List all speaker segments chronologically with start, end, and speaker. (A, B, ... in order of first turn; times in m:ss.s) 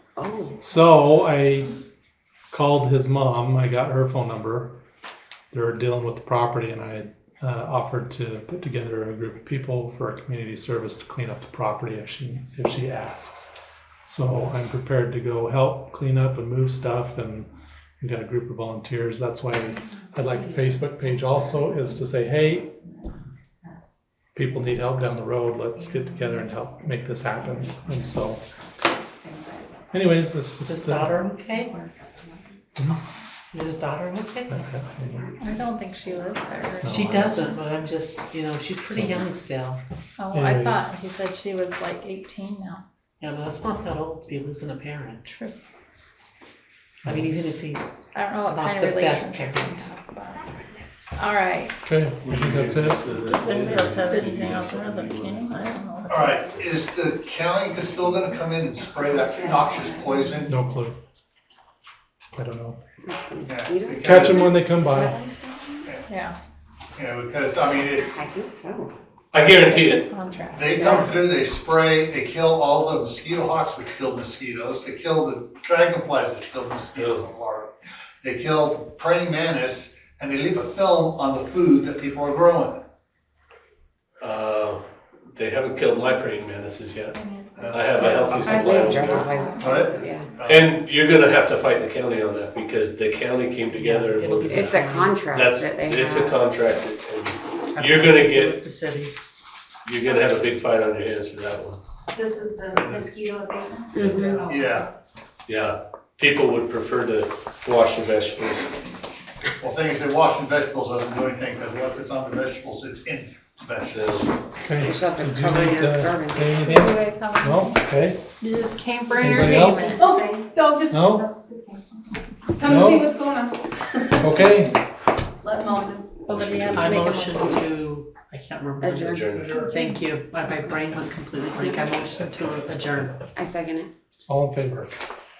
0:00.2-0:00.6 A
0:00.6-0:01.7 B
0:02.5-0:04.8 B
0:05.5-0:13.5 B
0:14.0-0:17.5 B
0:18.0-0:22.7 B
0:24.3-0:28.4 B
0:29.9-0:31.2 B
0:30.6-0:31.8 C
0:33.5-0:34.6 C
0:34.5-0:35.3 B
0:35.4-0:37.6 D
0:36.8-0:39.8 C
0:36.8-0:37.3 B
0:38.9-0:39.2 B
0:40.2-0:42.8 D
0:40.3-0:40.9 B
0:43.2-0:45.3 C
0:45.3-0:45.6 D
0:47.0-0:50.4 C
0:48.1-0:50.5 D
0:51.1-0:51.7 D
0:51.8-0:53.1 B
0:52.2-0:55.5 E
0:53.3-0:54.3 C
0:53.4-0:56.3 D
0:55.5-0:56.2 C
0:56.1-1:00.6 F
0:59.1-1:00.0 A
1:00.4-1:01.0 B
1:02.3-1:02.8 B
1:03.0-1:05.9 A
1:03.4-1:04.6 F
1:04.0-1:05.2 B
1:06.1-1:06.4 D
1:06.9-1:08.2 F
1:08.0-1:08.9 A
1:09.3-1:10.1 E
1:09.4-1:09.9 F
1:09.7-1:11.2 D
1:10.5-1:22.8 F
1:10.7-1:11.1 A
1:17.0-1:17.2 E
1:24.2-1:27.2 E
1:27.5-1:30.8 F
1:27.7-1:30.1 G
1:27.7-1:29.3 E
1:28.0-1:30.3 A
1:30.4-1:38.6 E
1:33.7-1:35.2 C
1:34.5-1:36.4 A
1:37.7-1:39.1 C
1:39.8-1:41.8 E
1:42.1-1:44.6 G
1:42.7-1:43.2 F
1:43.9-1:44.5 A
1:43.9-1:44.4 E
1:44.4-1:44.9 F
1:45.5-1:48.7 E
1:49.6-1:54.3 F
1:53.9-1:54.3 E
1:54.6-1:58.2 B
1:54.8-1:56.6 A
1:56.6-1:57.8 D
1:58.4-2:00.1 D
1:59.0-2:00.3 A
1:59.2-1:59.9 B
1:59.2-2:01.7 G
2:00.9-2:01.3 B
2:02.6-2:03.5 G
2:02.6-2:03.1 B
2:04.2-2:04.8 B
2:05.4-2:06.0 G
2:06.2-2:07.6 D
2:06.2-2:07.1 E
2:06.7-2:13.2 C
2:08.8-2:09.6 A
2:09.1-2:09.8 E
2:13.3-2:13.9 A
2:14.3-2:14.9 B